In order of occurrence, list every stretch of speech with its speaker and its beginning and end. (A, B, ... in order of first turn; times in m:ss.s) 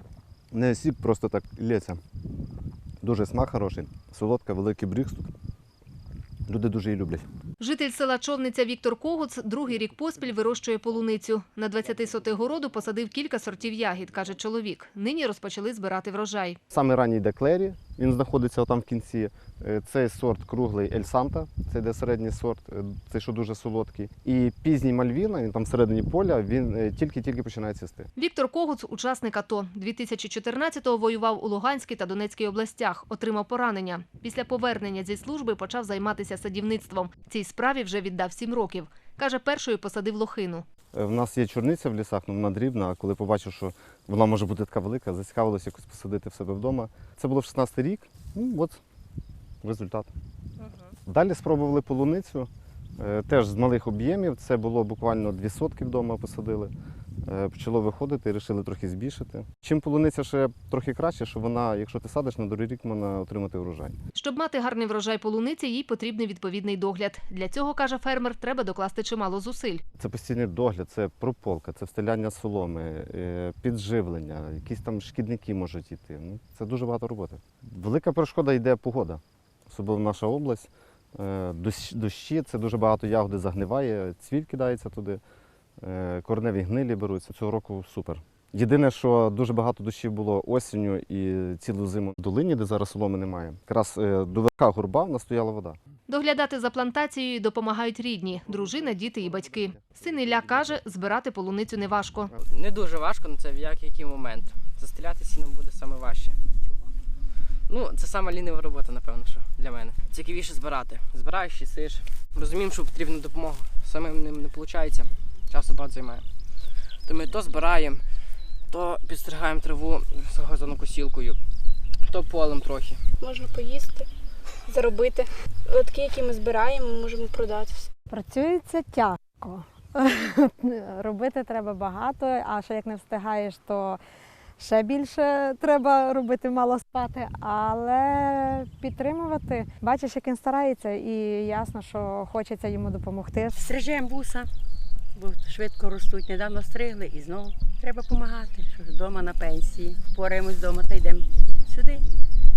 0:00.5-0:02.0 A
0:03.0-0:05.3 A
0:06.5-0:07.2 A
0:07.6-0:16.6 B
0:16.7-0:28.1 A
0:28.2-0:40.6 B
0:40.9-0:48.8 A
0:49.6-0:50.1 A
0:51.1-0:56.7 A
0:57.3-1:04.0 A
1:04.1-1:09.8 B
1:10.0-1:25.2 A
1:25.8-1:35.8 A
1:36.1-1:42.3 B
1:42.5-1:46.4 C
1:47.7-1:56.3 C
1:57.1-1:58.1 C
1:58.7-2:01.4 C
2:02.1-2:03.0 C
2:03.2-2:04.1 D
2:04.6-2:07.9 D
2:08.1-2:14.0 E
2:14.6-2:23.7 E
2:23.5-2:24.5 F
2:25.2-2:32.0 F